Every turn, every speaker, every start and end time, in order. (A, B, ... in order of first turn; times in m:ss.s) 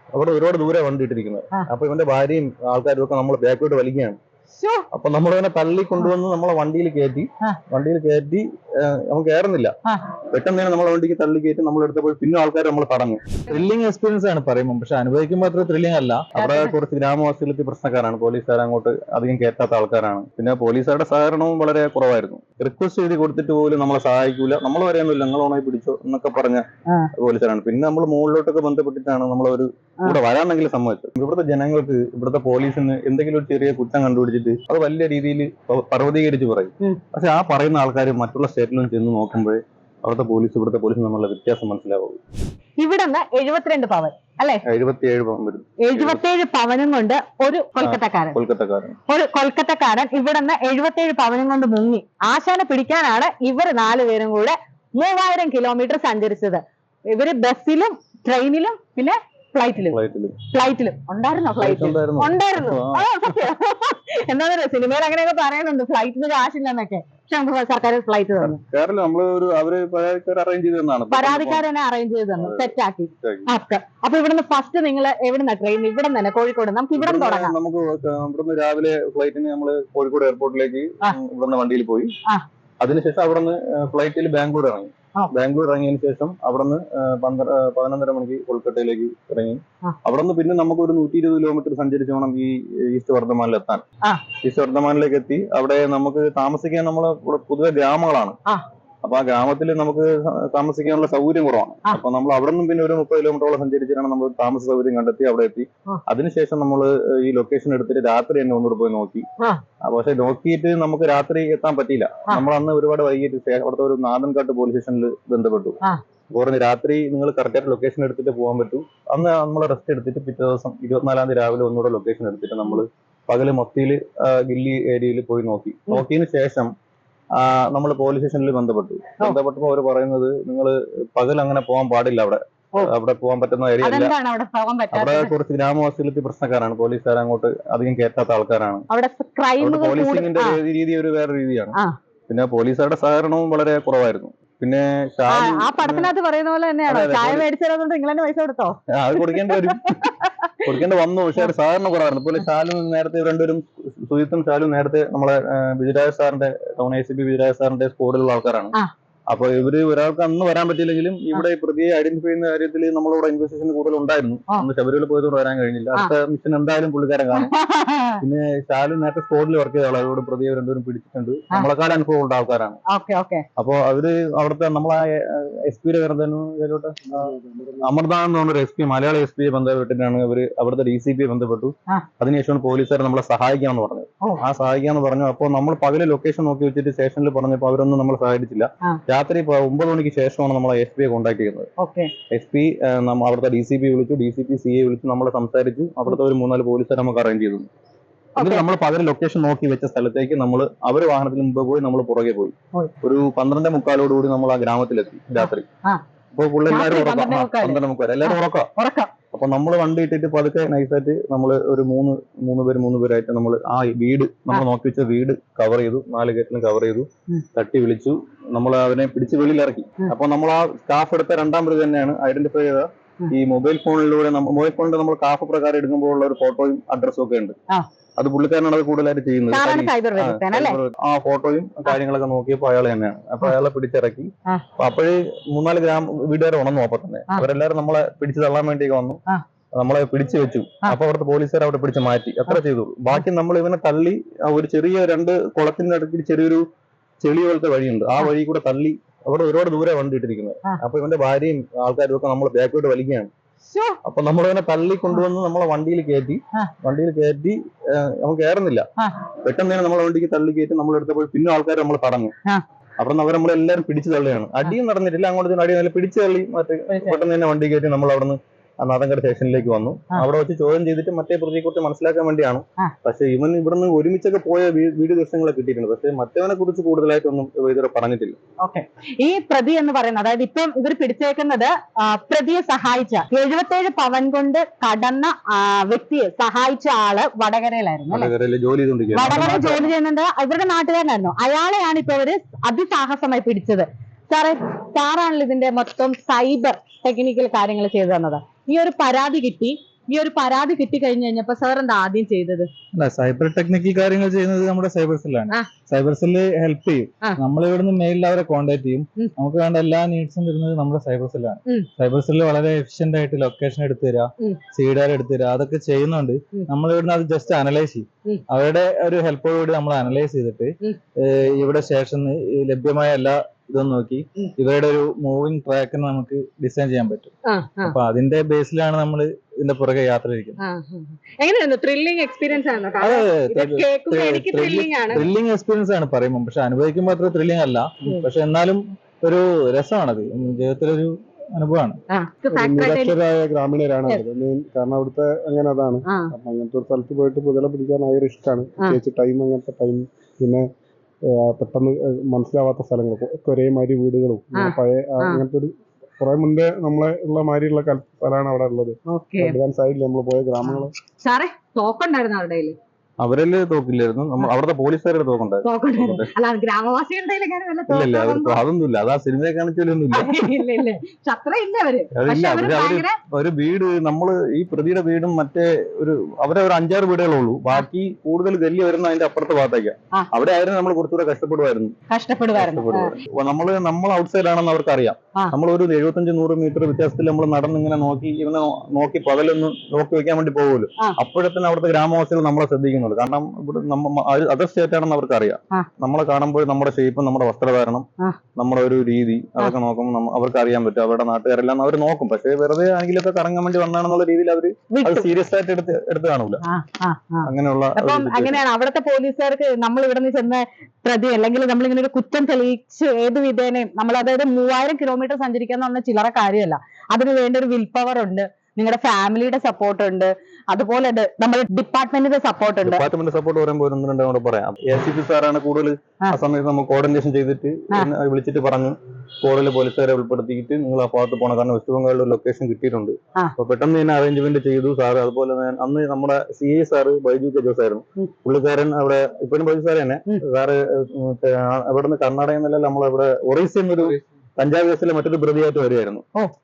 0:00.1-0:04.2 A
0:04.5-0:04.8 B
0:04.9-0:09.7 A
0:10.3-0:13.2 A
0:13.5-0:16.3 C
0:16.3-0:26.6 A
0:16.4-0:16.7 B
0:27.2-0:42.2 A
0:42.8-0:44.6 B
0:44.6-0:46.2 A
0:45.8-0:48.4 B
0:47.8-0:49.0 A
0:49.1-1:00.0 B
0:59.9-1:00.4 A
1:00.5-1:08.6 B
1:01.6-1:03.4 A
1:08.4-1:11.6 A
1:11.1-1:17.6 B
1:12.4-1:13.5 A
1:17.0-1:22.1 A
1:22.8-1:33.8 A
1:34.4-1:38.4 A
1:39.0-1:49.2 A
1:49.8-1:55.8 A
1:56.3-2:06.7 A
2:07.4-2:14.1 A
2:13.8-2:15.3 B
2:14.9-2:18.8 A
2:18.9-2:20.6 B
2:19.6-2:21.7 A
2:22.3-2:26.1 A
2:25.3-2:30.5 B
2:26.9-2:27.4 A
2:28.9-2:29.9 A
2:30.6-2:38.7 A
2:39.3-2:47.5 A
2:47.3-2:48.2 B
2:48.2-2:52.8 A
2:52.9-2:53.4 B
2:53.6-2:57.3 A
2:57.1-2:57.9 D
2:57.8-3:11.7 A
3:11.8-3:12.1 B
3:12.3-3:17.7 A
3:18.4-3:18.6 B
3:18.4-3:25.6 A
3:25.4-3:26.0 B
3:26.3-3:28.7 A
3:26.7-3:29.1 B
3:29.3-3:47.5 A
3:48.2-3:59.2 A
3:49.5-3:50.8 B
3:59.7-4:06.6 A
4:07.2-4:13.3 A
4:13.6-4:14.0 B
4:14.0-4:18.8 A
4:19.4-4:22.3 A
4:23.0-4:38.4 A
4:26.9-4:27.2 B
4:38.6-4:48.3 B
4:48.1-4:49.9 A
4:49.1-5:02.7 B
5:02.9-5:30.6 C
5:27.4-5:28.0 B
5:30.6-5:35.3 B
5:33.0-5:42.0 C
5:42.1-5:43.2 B
5:42.5-5:50.6 D
5:51.3-6:00.9 D
5:54.5-5:55.4 B
5:59.1-5:59.6 B
6:00.6-6:02.8 B
6:03.2-6:06.3 A
6:05.6-6:08.6 B
6:07.9-6:10.7 A
6:10.1-6:13.2 B
6:12.1-6:21.9 A
6:22.1-6:23.1 B
6:22.5-6:38.0 A
6:38.6-6:46.6 A
6:44.9-6:45.2 B
6:46.6-7:03.0 B
6:47.4-6:48.6 A
7:02.8-7:26.2 A